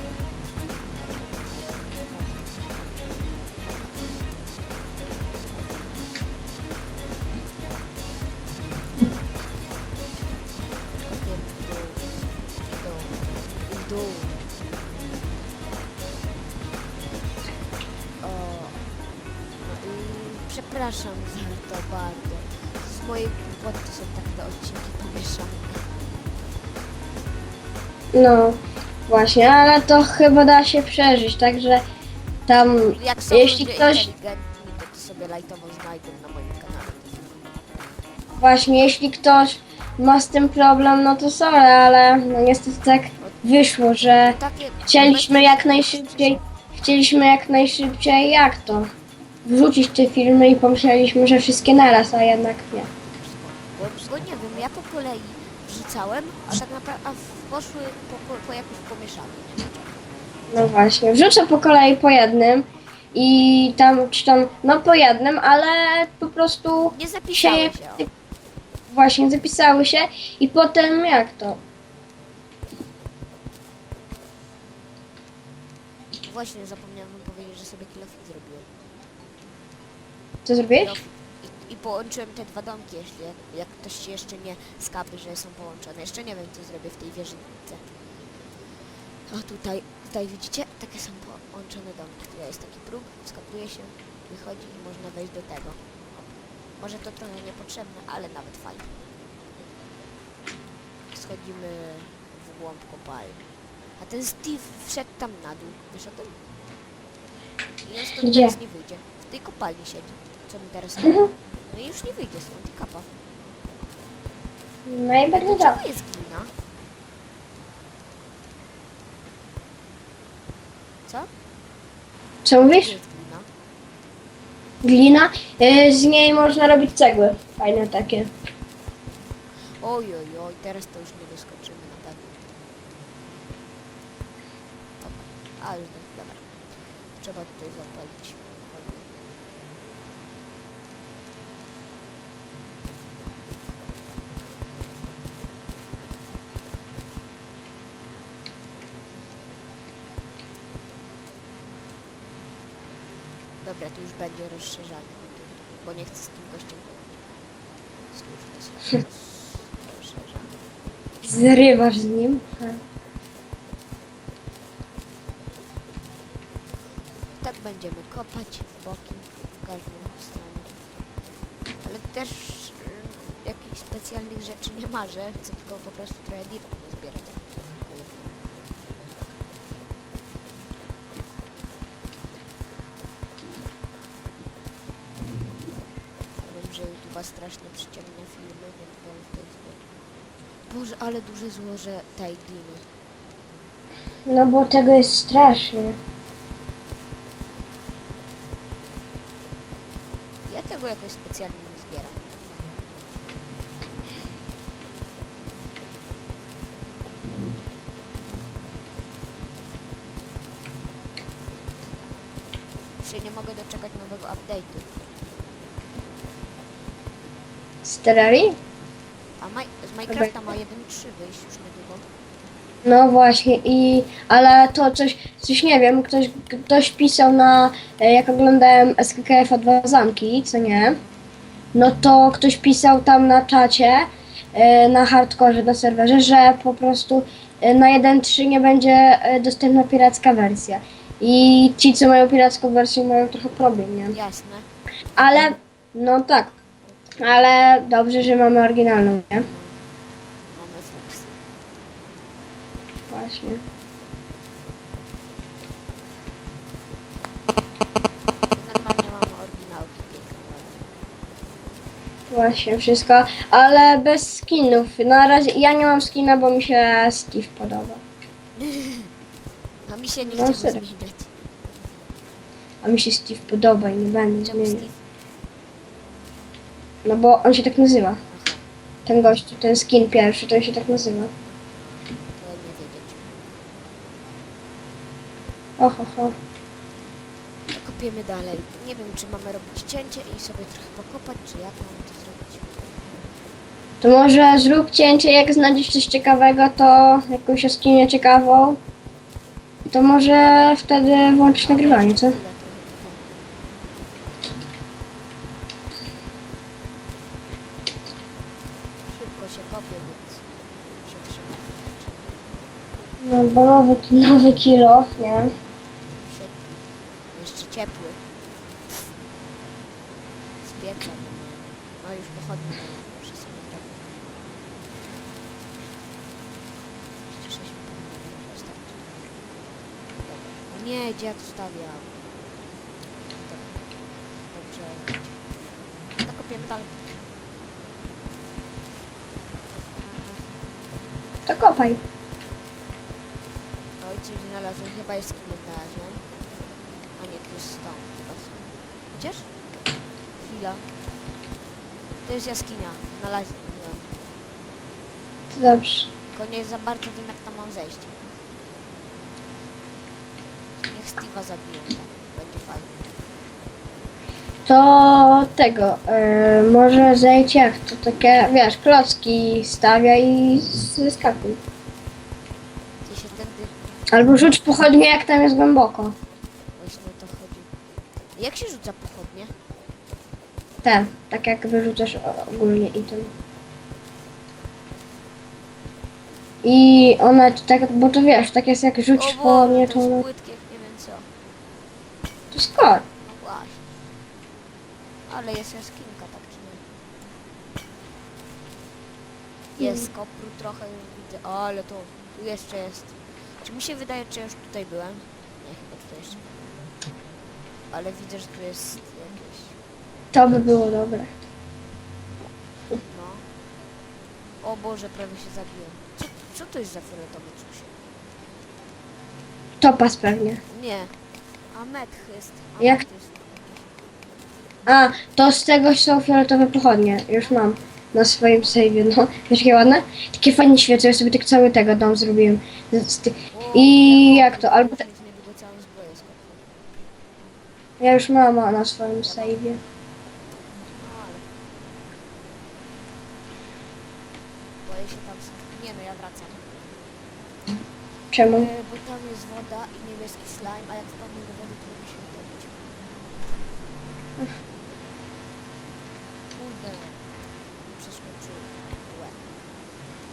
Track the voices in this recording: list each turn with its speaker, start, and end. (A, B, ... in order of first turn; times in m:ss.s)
0:01.0-0:04.3 A
0:10.9-0:14.4 A
0:18.2-0:18.8 A
0:19.6-0:25.9 A
0:28.1-0:31.8 B
0:32.5-0:34.1 B
0:32.7-0:37.7 A
0:38.4-0:48.9 B
0:44.2-0:46.4 A
0:49.4-0:52.9 B
0:53.0-1:00.0 A
1:00.5-1:08.1 B
1:06.9-1:08.1 A
1:08.9-1:11.6 B
1:16.2-1:18.7 A
1:20.4-1:21.0 B
1:20.8-1:27.8 A
1:29.3-1:35.8 A
1:36.8-1:39.0 A
1:41.1-1:43.4 A
1:44.0-1:46.4 A
1:47.8-1:53.1 A
1:48.2-1:48.5 B
1:51.0-1:51.3 B
1:54.9-1:55.8 B
1:55.3-1:56.5 A
2:02.4-2:03.0 B
2:02.6-2:03.5 A
2:04.8-2:08.3 B
2:09.8-2:12.6 A
2:15.0-2:16.5 A
2:17.1-2:19.2 A
2:33.6-2:37.3 A
2:38.1-2:40.6 A
2:41.2-2:42.8 B
2:47.4-2:50.8 A
2:51.8-2:58.4 A
3:06.4-3:09.8 A
3:10.7-3:12.8 A
3:14.3-3:16.0 B
3:20.4-3:22.5 A
3:33.0-3:34.9 A
3:37.8-3:38.6 B
3:39.4-3:42.1 A
3:42.8-3:51.0 B
3:51.7-4:04.1 B
4:04.1-4:04.7 A
4:05.2-4:06.5 B
4:07.2-4:09.5 B
4:09.3-4:09.8 A
4:10.5-4:11.4 A
4:13.1-4:13.6 B
4:18.5-4:20.9 A
4:22.3-4:28.0 B
4:28.6-4:29.1 A
4:29.9-4:31.3 A
4:30.2-4:30.8 B
4:32.8-4:34.8 B
4:34.4-4:35.0 A
4:37.0-4:38.2 B
4:38.3-4:38.6 A
4:39.0-4:41.3 B
4:42.4-4:43.4 A
4:45.8-4:46.3 B
4:47.7-4:53.0 A
4:54.0-4:58.8 B
4:59.9-5:02.4 B
5:01.6-5:03.3 A
5:09.1-5:12.4 A
5:13.2-5:15.5 B
5:16.1-5:16.7 A
5:17.3-5:18.2 A
5:20.6-5:24.0 A
5:27.3-5:29.3 A
5:30.2-5:32.1 A
5:33.3-5:33.9 A
5:34.5-5:35.4 A
5:36.2-5:37.0 A
5:41.5-5:42.0 B
5:44.0-5:46.2 A
5:47.2-5:49.5 A
5:50.4-5:50.9 A
5:52.2-5:54.2 A
5:55.5-5:56.1 B
5:56.3-5:58.3 A
6:00.8-6:03.2 A
6:04.6-6:11.6 B
6:13.0-6:13.8 A
6:14.1-6:16.1 B
6:16.8-6:17.7 A
6:18.3-6:19.5 A
6:20.8-6:23.3 B
6:26.6-6:30.2 B
6:29.2-6:31.3 A
6:32.5-6:33.0 B
6:33.2-6:33.8 A
6:35.3-6:36.8 A
6:39.8-6:46.4 A
6:39.8-6:40.0 B
6:47.9-6:49.8 A
6:50.3-6:51.3 B
6:53.0-6:53.5 A
6:54.6-6:57.9 A
6:59.8-7:00.6 B
7:00.7-7:01.2 A
7:01.7-7:04.0 A
7:02.8-7:03.0 B
7:04.8-7:15.0 B
7:13.5-7:16.8 A
7:18.0-7:19.8 B
7:19.2-7:19.6 A
7:21.0-7:21.5 A
7:24.8-7:27.0 A
7:28.3-7:28.7 B
7:28.5-7:32.9 A
7:36.5-7:37.2 A
7:37.8-7:39.4 A